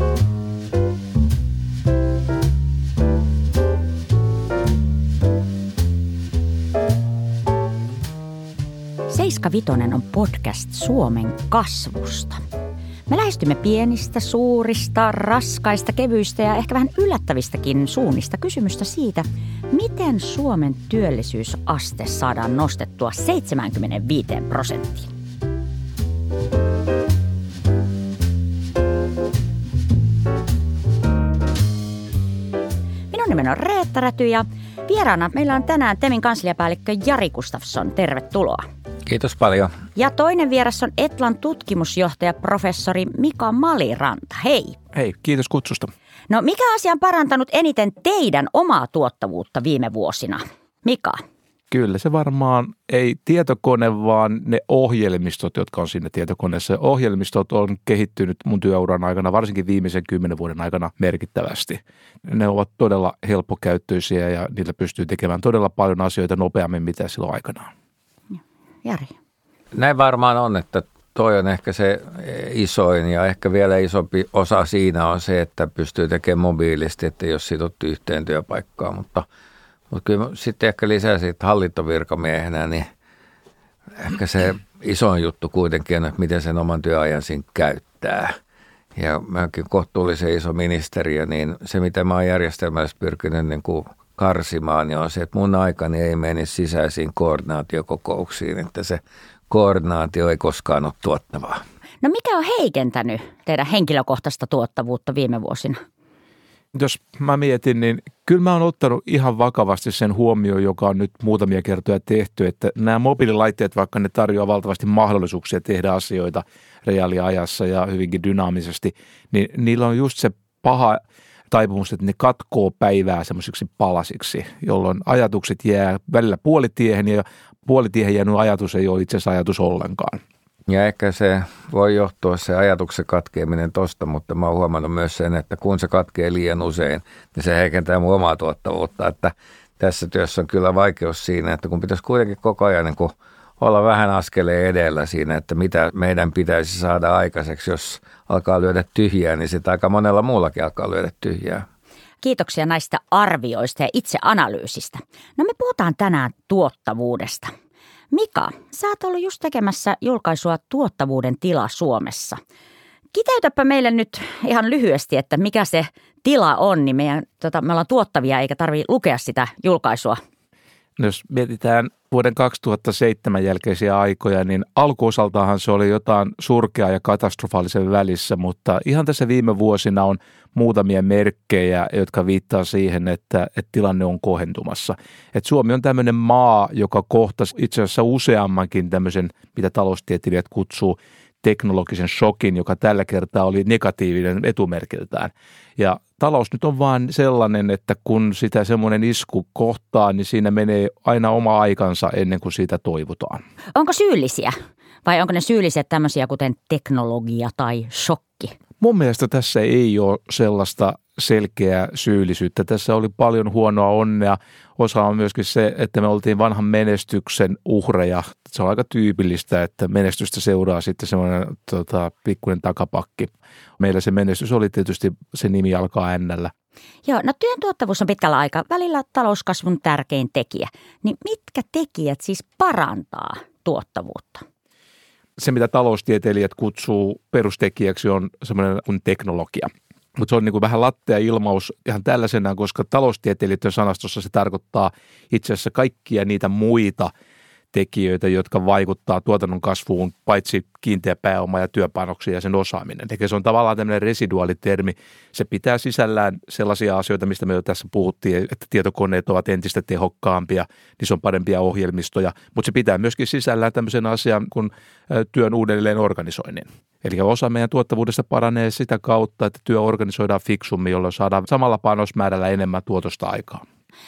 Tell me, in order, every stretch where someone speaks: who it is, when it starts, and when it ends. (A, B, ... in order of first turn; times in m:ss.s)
0:09.1-0:12.4 A
0:13.1-0:25.1 A
0:33.1-0:38.6 A
0:39.0-0:39.7 B
0:40.0-0:44.8 A
0:44.9-0:45.9 C
0:46.3-0:51.2 A
0:51.7-1:07.7 C
1:08.8-1:09.1 A
1:09.7-1:19.3 B
1:19.9-1:22.9 B
1:24.0-1:28.4 B
1:29.0-1:41.6 B
1:42.0-1:45.8 A
1:46.7-2:01.0 C
2:01.5-2:10.2 C
2:10.7-2:31.6 B
2:32.2-2:37.5 A
2:38.1-2:42.4 A
2:43.1-2:50.2 A
2:51.0-3:23.4 C
3:23.8-3:28.5 A
3:28.8-3:46.5 C
3:47.0-3:54.4 A
3:55.4-4:07.1 C
4:07.7-4:33.6 C